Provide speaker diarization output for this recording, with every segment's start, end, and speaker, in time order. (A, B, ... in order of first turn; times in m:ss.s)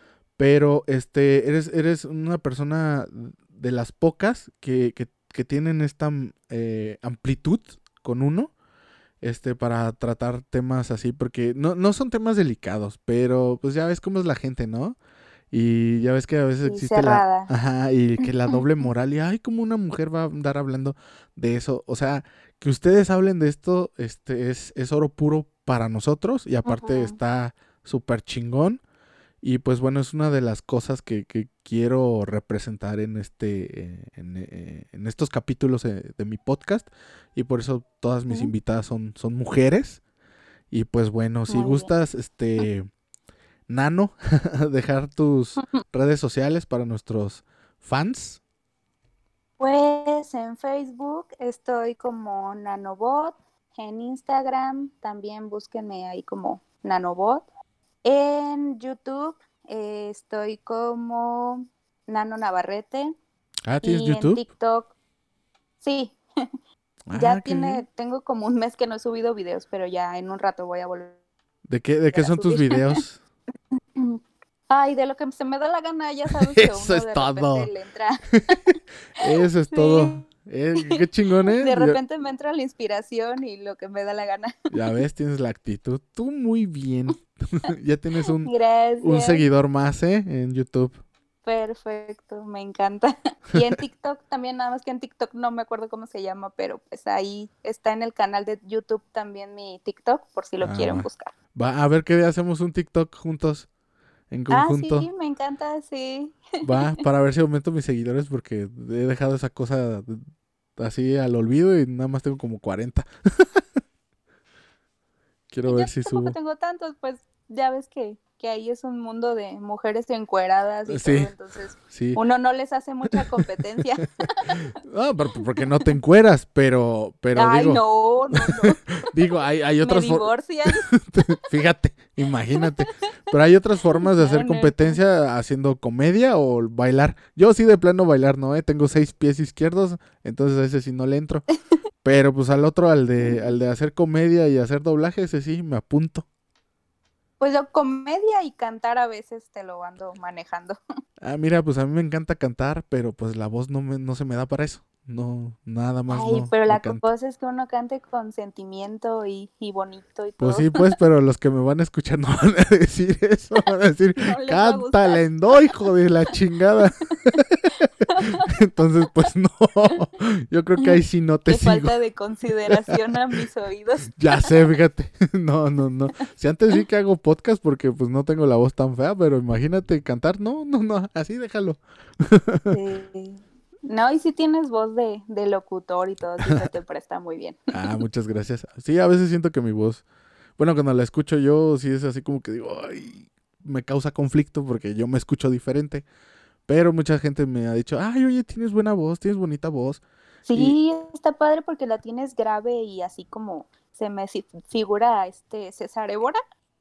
0:00.4-0:08.5 A
0:09.2-0:15.0 A
0:15.5-0:28.8 A
0:16.6-0:17.5 B
0:26.6-0:27.2 B
0:29.4-0:40.0 A
0:40.7-0:42.9 A
0:41.5-0:41.9 B
0:43.7-0:48.4 A
0:49.6-0:57.4 B
0:58.0-1:03.1 B
1:03.6-1:04.4 A
1:03.8-1:04.9 B
1:05.8-1:06.2 B
1:07.1-1:07.8 A
1:07.1-1:11.2 B
1:11.7-1:13.2 A
1:12.1-1:13.0 B
1:14.0-1:18.8 B
1:16.4-1:17.7 A
1:18.3-1:22.0 A
1:19.7-1:20.2 B
1:21.5-1:24.9 B
1:24.7-1:28.5 A
1:28.4-1:29.4 B
1:29.0-1:31.0 A
1:31.4-1:41.3 B
1:40.6-1:43.7 A
1:44.3-1:45.1 A
1:44.5-1:47.0 B
1:46.6-1:50.2 A
1:50.8-1:53.6 A
1:55.5-1:56.3 A
1:55.7-2:04.6 B
2:00.9-2:02.2 A
2:03.1-2:04.0 A
2:04.6-2:21.4 A
2:07.3-2:08.8 B
2:09.8-2:11.3 B
2:12.6-2:12.9 B
2:14.2-2:15.0 B
2:22.0-2:26.2 A
2:23.2-2:23.5 B
2:27.4-2:30.8 B
2:31.2-2:37.0 A
2:36.1-2:40.8 B
2:40.4-2:51.9 A
2:44.2-2:45.7 B
2:48.1-2:48.5 B
2:51.5-2:54.6 B
2:52.7-2:53.0 A
2:54.1-3:02.8 A
3:02.7-3:07.7 B
3:06.4-3:06.7 A
3:07.7-3:10.0 A
3:10.6-3:16.0 A
3:16.7-3:20.0 A
3:20.5-3:26.4 B